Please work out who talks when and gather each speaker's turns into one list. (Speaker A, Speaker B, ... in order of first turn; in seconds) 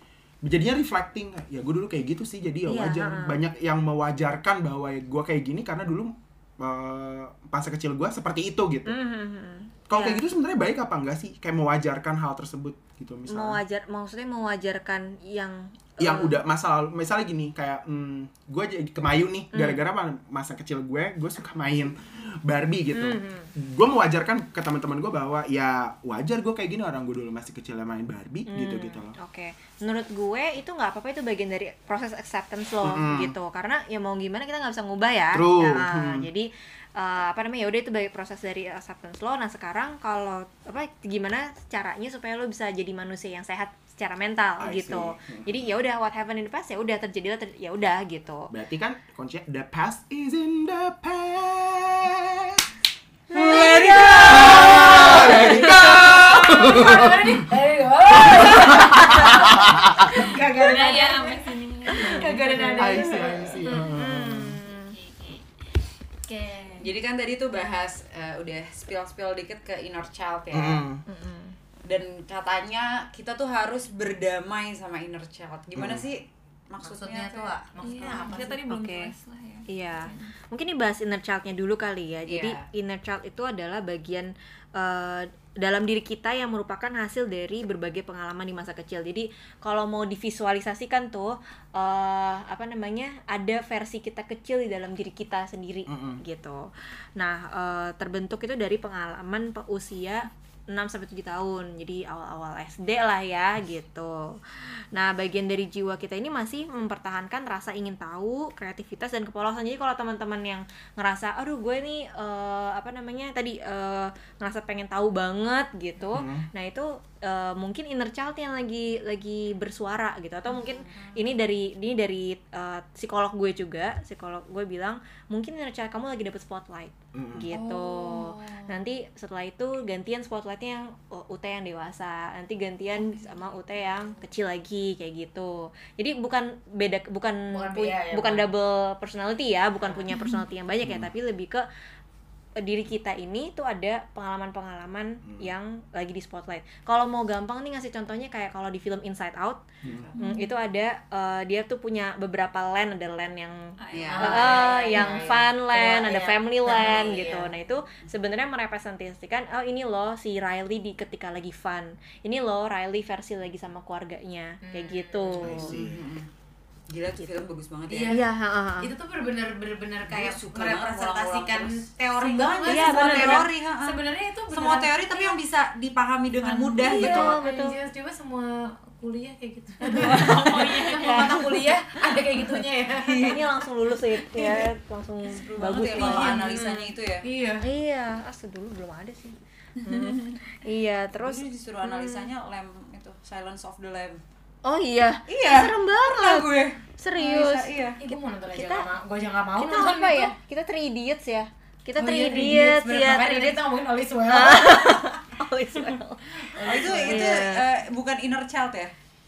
Speaker A: 0.4-8.9, 9.9-13.6, 16.0-29.1, 32.8-33.3, 35.3-36.3, 44.6-45.6, 48.5-52.7, 54.0-57.4, 58.2-60.1, 62.8-64.6, 70.5-71.0, 75.7-76.0, 95.9-96.2, 116.1-116.5, 127.1-127.5, 140.8-141.1, 149.8-150.1, 165.4-166.1
Speaker B: 2.6-3.4, 8.9-10.2, 13.3-16.4, 19.5-19.8, 22.9-23.5, 28.5-48.5, 53.3-55.7, 62.0-63.1, 63.6-65.0, 71.1-71.5, 78.7-79.1, 79.7-141.6, 142.6-149.6, 150.2-165.7, 168.1-168.9, 172.7-173.5, 176.8-177.8, 179.8-181.9, 183.2-186.9, 187.6-192.3, 194.6-198.9, 199.6-203.6, 204.3-207.7
Speaker C: 53.3-56.8, 66.8-70.8, 71.8-77.5, 82.3-82.6, 127.5-128.6, 149.8-150.1, 153.9-155.2, 165.6-166.2, 166.9-168.2, 170.1-177.4, 183.0-183.4, 185.2-187.2, 191.1-194.2, 195.3-198.0, 206.6-208.9
Speaker D: 55.1-63.7, 66.6-66.8, 76.8-78.6, 137.5-138.5, 139.8-140.2, 154.1-157.5, 164.6-165.8, 167.9-168.2, 168.8-175.4, 176.4-183.4, 184.3-184.7, 185.9-186.6, 187.2-187.6, 198.0-200.3, 202.0-205.2, 206.5-207.4
Speaker E: 60.4-63.2, 64.6-65.4, 66.5-66.8, 77.8-80.3, 133.2-133.5, 150.2-150.5, 153.8-154.7, 180.2-181.2, 189.9-190.4